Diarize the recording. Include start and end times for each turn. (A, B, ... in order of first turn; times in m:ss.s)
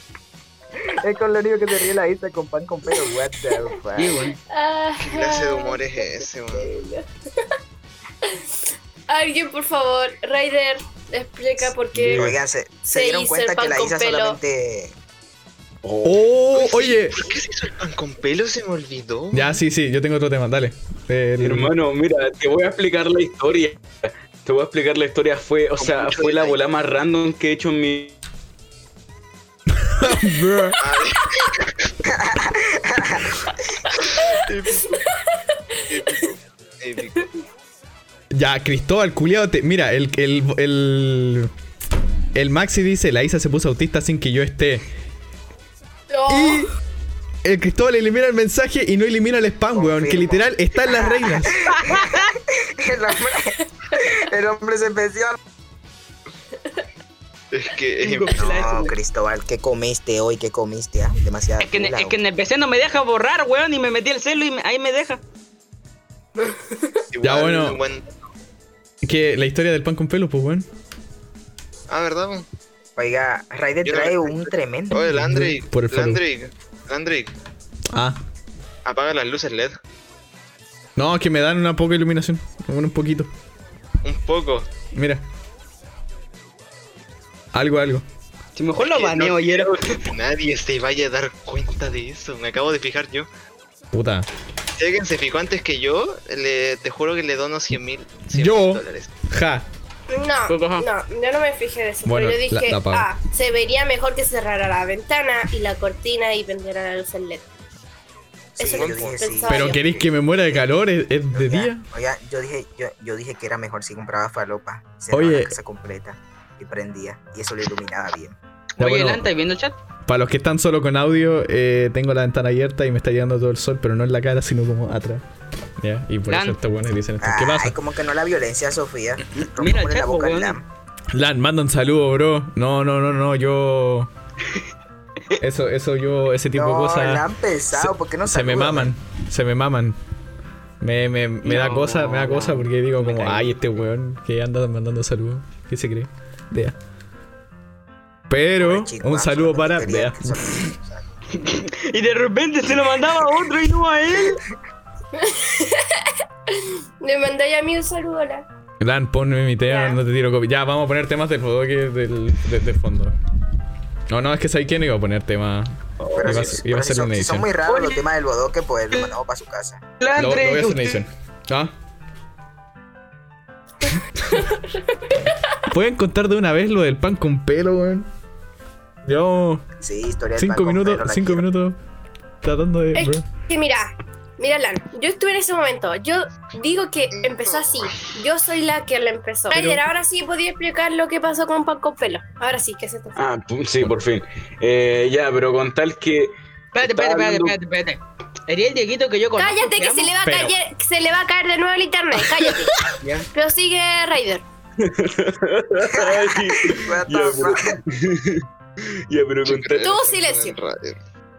0:00.9-0:04.2 A
0:04.0-0:04.4 B
0:04.5-0:07.1 C
0:05.0-0:06.7 D
0:09.1-0:12.3 C
0:12.0-0:12.4 E
0:12.1-0:15.0 A
0:12.9-0:14.4 C
0:15.8-0:16.2 E
0:16.0-0:17.2 F
0:16.6-0:19.6 D
0:19.3-0:21.7 F
0:21.4-0:28.2 E
0:25.8-0:26.6 D
0:29.8-0:30.8 F
0:30.8-0:31.9 D
0:32.1-0:33.3 A
0:34.0-0:35.0 D
0:35.9-0:37.3 D
0:38.3-0:41.5 F
0:42.4-0:44.9 F
0:46.1-0:46.7 C
0:46.3-0:46.7 F
0:47.4-0:51.6 F
0:49.7-0:55.4 A
0:51.9-0:52.3 B
0:57.5-0:58.4 D
0:58.1-0:58.9 B
0:58.3-1:02.2 A
1:01.6-1:05.2 B
1:07.1-1:08.1 D
1:07.2-1:07.8 F
1:09.0-1:10.7 F
1:11.9-1:12.5 D
1:13.0-1:15.1 A
1:13.8-1:17.3 D
1:15.0-1:16.2 F
1:17.9-1:18.2 F
1:18.8-1:19.8 D
1:21.0-1:23.3 F
1:24.0-1:24.7 D
1:24.9-1:25.2 F
1:27.5-1:28.0 F
1:28.6-1:30.0 B
1:28.8-1:33.3 D
1:33.9-1:34.3 F
1:34.8-1:39.1 D
1:38.3-1:39.7 F
1:40.1-1:47.5 C
1:40.5-1:40.8 B
1:42.0-1:43.1 F
1:48.6-1:50.1 A
1:48.6-1:49.9 C
1:48.7-1:49.2 D
1:49.5-1:51.8 F
1:51.3-1:58.4 A
1:55.1-1:55.6 F
1:58.8-1:59.8 B
1:58.8-1:59.3 F
2:00.1-2:05.2 F
2:05.8-2:07.8 F
2:06.3-2:06.6 B
2:07.2-2:10.6 A
2:09.6-2:10.6 B
2:11.1-2:14.1 F
2:15.4-2:20.0 F
2:16.5-2:18.9 A
2:20.8-2:26.8 F
2:21.5-2:23.6 E
2:28.3-2:30.6 F
2:28.6-2:31.0 A
2:31.4-2:34.4 B
2:35.2-2:38.5 C
2:38.8-2:43.2 F
2:39.7-2:40.0 C
2:44.1-2:45.7 F
2:46.0-2:46.6 E
2:46.1-2:49.8 A
2:46.2-2:47.5 F
2:50.0-2:51.0 E
2:50.2-2:51.7 F
2:54.2-2:54.6 C
2:55.7-2:58.1 F
2:59.0-2:59.6 F
2:59.8-3:01.5 A
3:00.4-3:01.8 F
3:02.4-3:03.2 F
3:03.0-3:13.2 C
3:07.1-3:08.1 D
3:09.5-3:09.8 F
3:13.2-3:17.6 E
3:16.7-3:20.1 B
3:19.4-3:22.7 C
3:20.2-3:20.6 F
3:23.3-3:24.4 C
3:24.8-3:28.4 E
3:25.8-3:27.8 A
3:29.1-3:29.9 E
3:29.4-3:31.0 D
3:29.8-3:30.6 C